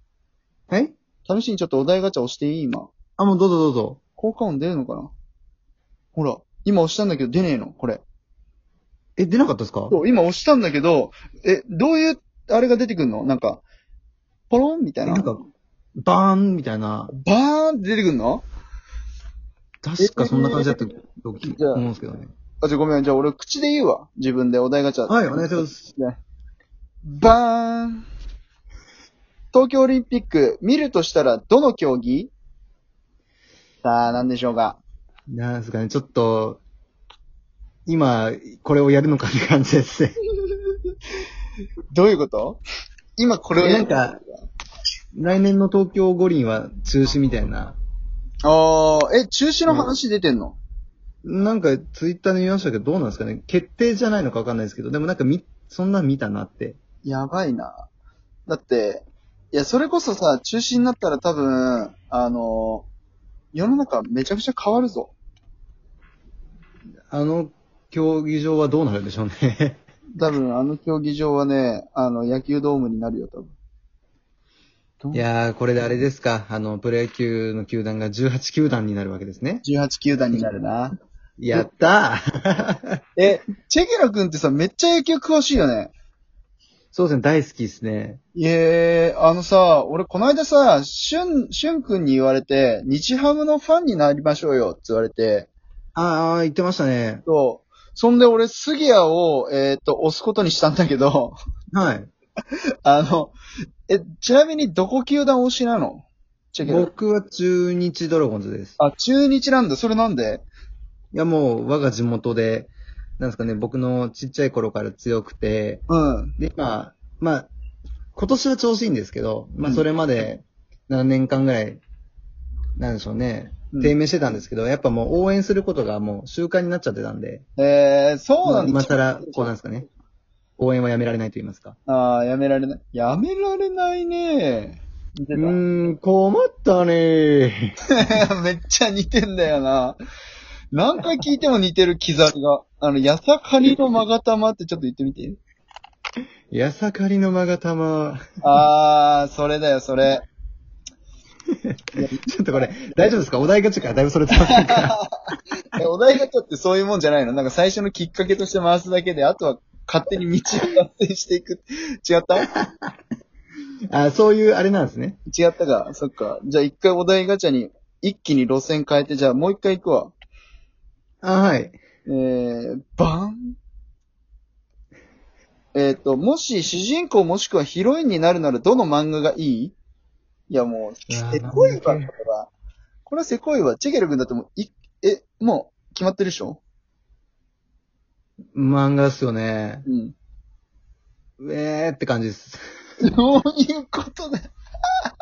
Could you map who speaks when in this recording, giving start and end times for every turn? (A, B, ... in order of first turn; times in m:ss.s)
0:01.2-0:02.9 A
0:03.2-0:04.0 B
0:04.2-0:05.1 A
0:06.1-0:08.0 A
0:09.2-0:10.0 B
0:09.9-0:13.6 A
0:14.5-0:15.3 A
0:15.0-0:15.4 B
0:16.0-0:17.1 B
0:17.1-0:18.4 A
0:19.8-0:22.3 B
0:20.0-0:20.9 A
0:21.4-0:21.8 A
0:22.6-0:26.2 A
0:25.1-0:25.8 B
0:27.0-0:28.0 A
0:29.5-0:32.3 A
0:33.8-0:34.8 A
0:35.3-0:36.6 B
0:37.8-0:40.2 B
0:41.9-0:42.6 A
0:43.2-0:44.0 A
0:43.6-0:44.2 B
0:45.1-0:47.8 B
0:48.4-0:50.6 A
0:51.2-0:56.8 B
0:57.0-0:57.8 A
0:58.5-1:02.9 A
1:03.5-1:05.1 A
1:07.1-1:09.8 B
1:10.2-1:13.5 A
1:15.1-1:19.6 B
1:19.6-1:21.0 A
1:21.4-1:23.0 B
1:23.2-1:25.9 A
1:26.9-1:28.2 B
1:28.3-1:35.5 A
1:35.9-1:37.2 B
1:37.2-1:41.4 A
1:41.7-1:42.1 B
1:42.8-1:43.3 A
1:43.9-1:46.9 A
1:46.6-1:48.8 B
1:48.8-1:50.4 A
1:51.1-1:55.8 B
1:55.9-1:56.3 A
1:56.4-1:57.5 B
1:58.1-2:01.8 B
2:02.8-2:07.4 B
2:07.6-2:09.5 A
2:08.4-2:09.9 B
2:10.6-2:11.8 B
2:11.9-2:15.6 A
2:15.3-2:17.7 B
2:17.9-2:20.0 A
2:20.7-2:25.4 A
2:26.5-2:28.2 B
2:28.4-2:30.2 A
2:31.9-2:33.1 A
2:32.3-2:35.0 B
2:34.3-2:35.0 A
2:35.8-2:42.5 A
2:43.9-2:45.2 B
2:45.3-2:50.1 A
2:51.2-2:51.8 B
2:52.0-2:53.6 A
2:55.7-2:59.7 A
3:00.5-3:02.5 A
3:01.1-3:02.1 B
3:03.0-3:06.6 A
3:08.5-3:09.8 B
3:09.8-3:10.1 A
3:11.4-3:12.6 B
3:13.0-3:14.5 A